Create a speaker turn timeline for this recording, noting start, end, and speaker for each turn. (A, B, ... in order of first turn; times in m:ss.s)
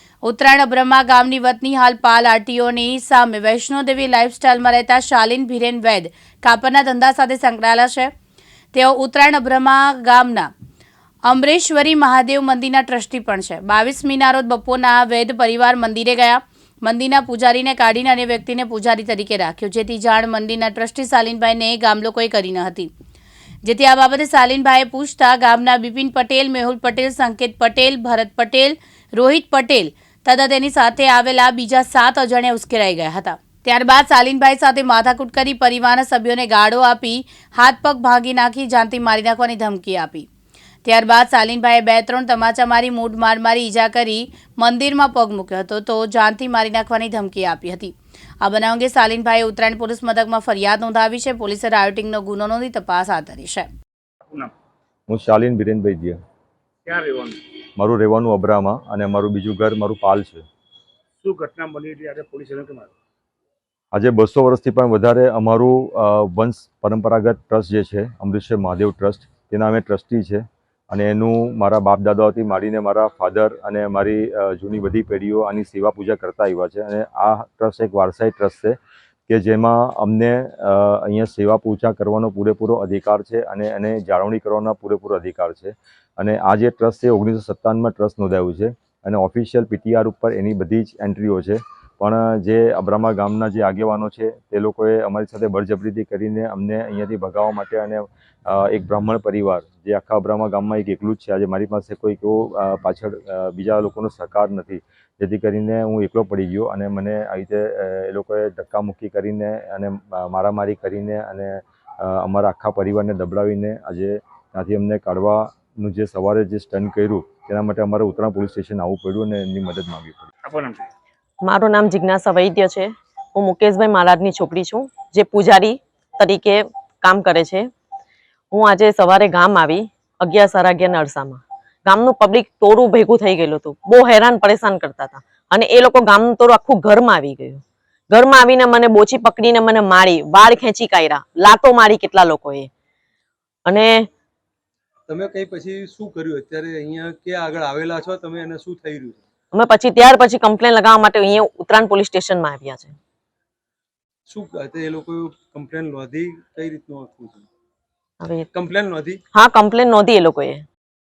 0:00.2-0:08.1 A
0:08.7-0:10.5 A
0:11.3-0:22.9 A
0:23.6-0:40.3 A
0:40.8-0:53.7 A
0:54.3-0:54.5 B
0:55.1-0:56.2 C
0:56.8-0:57.4 B
0:57.8-1:00.4 C
1:01.2-1:02.9 B
1:03.9-1:18.8 C
1:19.3-2:00.3 C
2:00.4-2:00.9 B
2:01.4-2:07.7 D
2:08.5-2:22.7 D
2:23.6-2:24.1 D
2:25.1-2:29.2 E
2:29.5-2:33.0 D
2:34.3-2:37.5 E
2:38.2-2:38.5 D
2:38.5-2:39.2 E
2:39.3-2:40.7 D